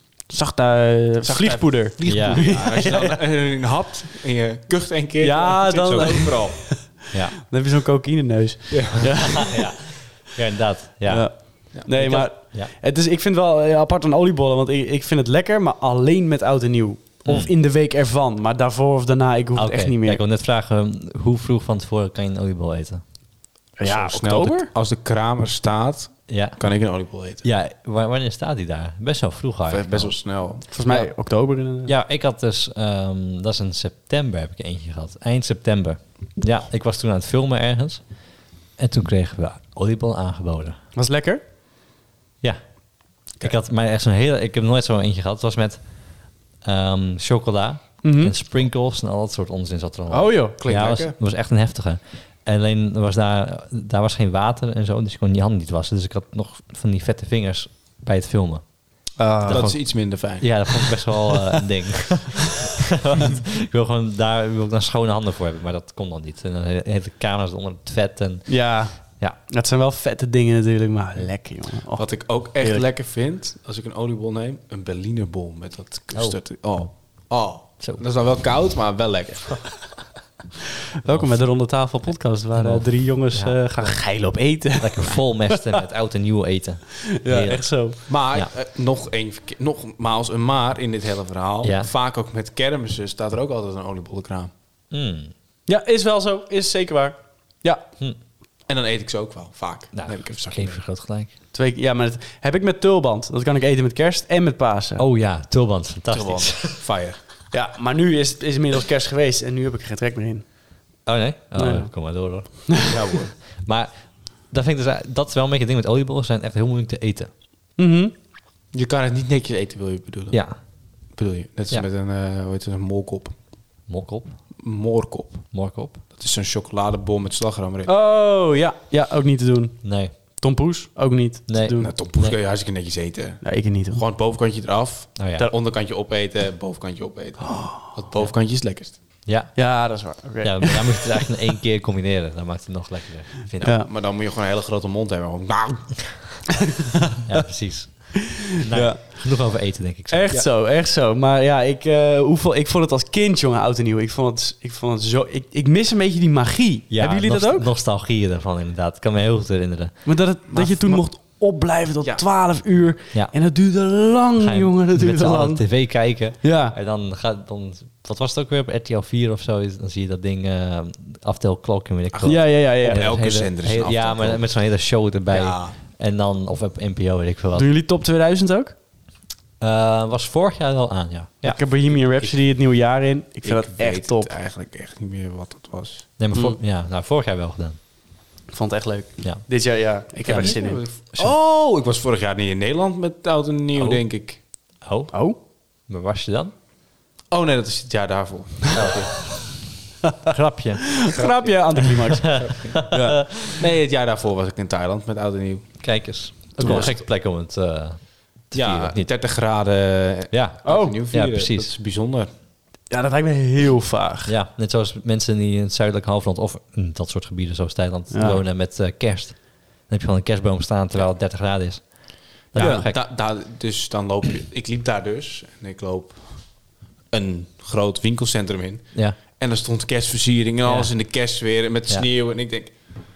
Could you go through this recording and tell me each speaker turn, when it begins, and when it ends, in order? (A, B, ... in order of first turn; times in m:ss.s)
0:00.3-0:03.2 A
0:01.2-0:06.7 B
0:02.0-0:02.4 C
0:05.2-0:09.6 A
0:08.7-0:09.2 B
0:09.3-0:12.7 C
0:11.0-0:20.2 A
0:17.2-0:17.5 C
0:19.6-0:23.0 C
0:23.8-0:24.7 A
0:23.8-0:27.4 B
0:26.3-0:26.6 C
0:27.4-0:30.2 C
0:29.7-0:30.6 B
0:30.7-0:31.9 A
0:31.8-0:38.2 C
0:38.8-0:40.8 C
0:41.0-0:41.4 A
0:42.4-1:09.4 C
0:48.0-0:48.3 A
0:50.1-0:50.6 A
0:50.6-0:51.1 B
0:59.2-0:59.7 A
0:59.4-1:00.9 B
1:08.5-1:12.8 A
1:12.0-1:19.7 B
1:16.1-1:16.4 C
1:21.0-1:25.8 A
1:21.0-1:21.4 C
1:22.5-1:24.2 C
1:24.8-1:28.5 C
1:27.1-1:28.0 A
1:28.1-1:34.5 B
1:31.6-1:31.9 C
1:34.9-1:35.3 C
1:35.7-1:37.8 A
1:38.7-1:40.8 B
1:39.9-1:41.3 C
1:41.5-1:45.0 A
1:45.0-1:46.8 C
1:46.1-1:47.2 B
1:47.5-1:50.7 A
1:51.0-1:57.3 C
1:51.6-1:52.7 A
1:52.8-1:53.4 B
1:57.8-1:58.1 A
1:58.7-2:03.4 B
2:00.3-2:00.6 C
2:03.9-2:04.4 C
2:04.6-2:07.9 B
2:05.5-2:06.0 C
2:07.8-2:11.9 A
2:09.8-2:10.1 C
2:11.5-2:12.4 C
2:11.8-2:19.0 B
2:13.4-2:14.0 A
2:15.2-2:15.5 C
2:17.4-2:17.8 A
2:19.2-2:23.7 C
2:19.5-2:21.2 A
2:23.6-2:23.9 A
2:23.6-2:26.4 B
2:27.2-2:30.3 C
2:28.7-2:29.2 A
2:30.1-2:37.7 A
2:36.9-2:40.2 C
2:40.0-2:46.8 A
2:40.5-2:41.0 B
2:44.4-2:57.7 C
2:52.1-2:54.4 B
2:52.2-2:53.1 A
2:55.3-2:55.8 B
2:57.5-2:58.7 A
2:59.6-3:01.6 C
3:01.4-3:04.3 A
3:02.1-3:02.4 B
3:03.4-3:06.1 B
3:06.2-3:07.8 C
3:06.3-3:06.6 A
3:08.5-3:10.8 A
3:10.2-3:10.5 C
3:10.2-3:14.4 B
3:13.8-3:14.0 C
3:14.7-3:15.1 C
3:15.1-3:15.4 A
3:15.8-3:16.5 C
3:17.3-3:19.2 B
3:18.7-3:19.4 C
3:20.2-3:21.0 C
3:20.9-3:23.2 A
3:21.1-3:26.0 B
3:22.4-3:23.4 C
3:25.8-3:29.1 C
3:26.5-3:27.0 B
3:26.6-3:26.9 A
3:28.5-3:32.3 B
3:30.3-3:31.7 C
3:30.6-3:31.0 A
3:32.9-3:34.3 A
3:34.3-3:43.1 C
3:38.1-3:38.4 A
3:42.5-3:53.0 B
3:42.6-3:42.9 A
3:50.6-3:50.9 C